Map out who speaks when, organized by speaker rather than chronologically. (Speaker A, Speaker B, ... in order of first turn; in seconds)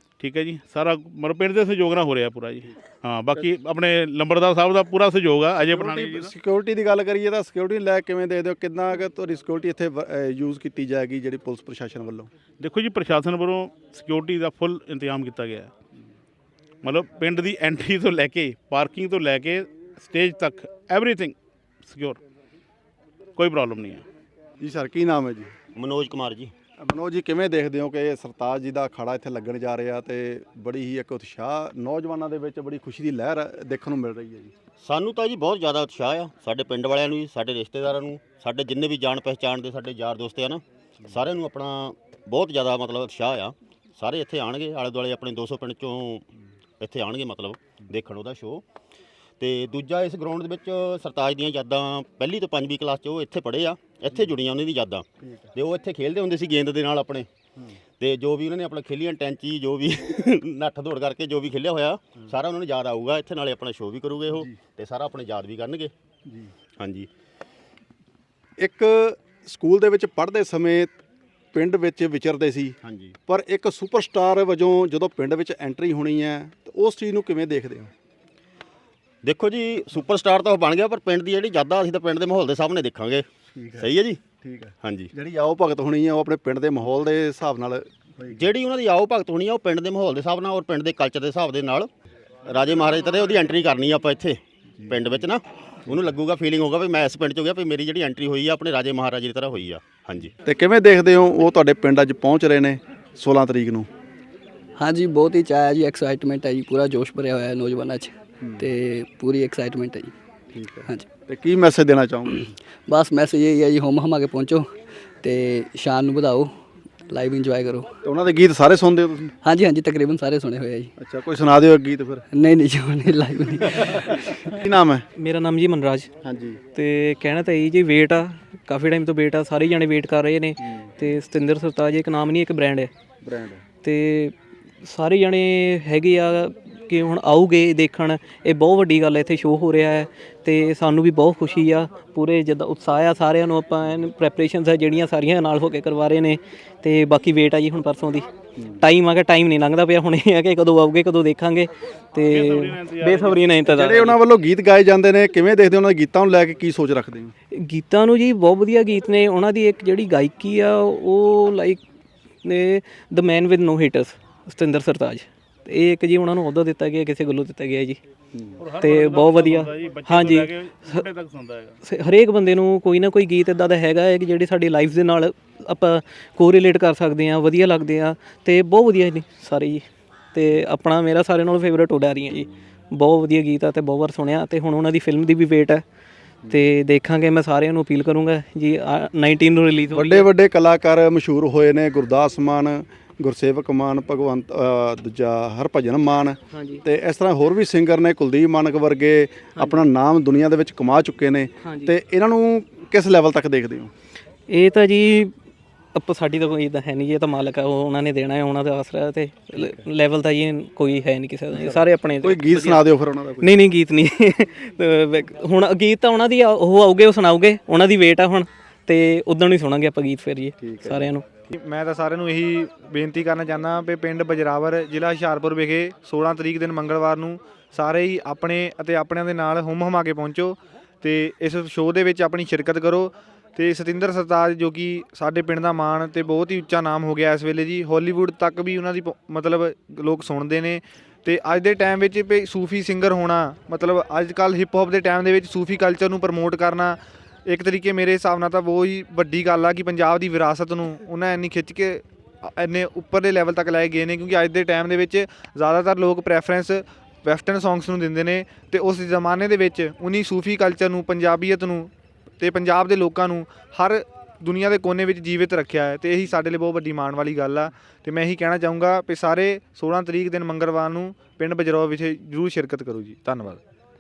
Speaker A: 0.2-6.3, 12.6-15.7, 16.8-22.2, 23.4-24.1, 152.3-153.5, 168.6-171.8
Speaker B: 5.7-12.3, 24.6-25.5, 26.8-34.5, 68.6-71.0, 71.5-77.9, 83.5-88.4, 94.8-95.2, 100.4-103.9, 110.5-112.5, 118.0-119.3, 121.0-122.2, 123.9-125.1, 126.2-126.6, 130.6-130.9, 133.2-133.6, 153.7-157.3, 168.3-168.6, 189.9-203.9, 209.6-209.8, 211.5-213.6, 220.6-221.1
Speaker C: 25.8-26.5, 34.8-46.2, 46.8-48.6, 49.4-57.3, 58.0-65.9, 66.8-67.1, 72.8-73.2, 79.2-83.3, 83.8-84.2, 84.8-85.1, 88.3-91.9, 92.5-100.3
Speaker D: 104.8-110.1, 112.9-116.5, 117.1-117.9, 119.4-120.9, 122.3-124.3
Speaker E: 125.2-126.1, 126.8-132.9, 133.8-148.3, 148.8-154.2, 157.6-161.8, 162.4-168.0, 168.8-171.1, 171.8-185.8, 186.5-190.3, 196.5-196.8, 199.6-199.8, 201.6-201.9, 204.5-205.3, 206.0-212.9, 213.4-221.2
Speaker F: 221.5-273.6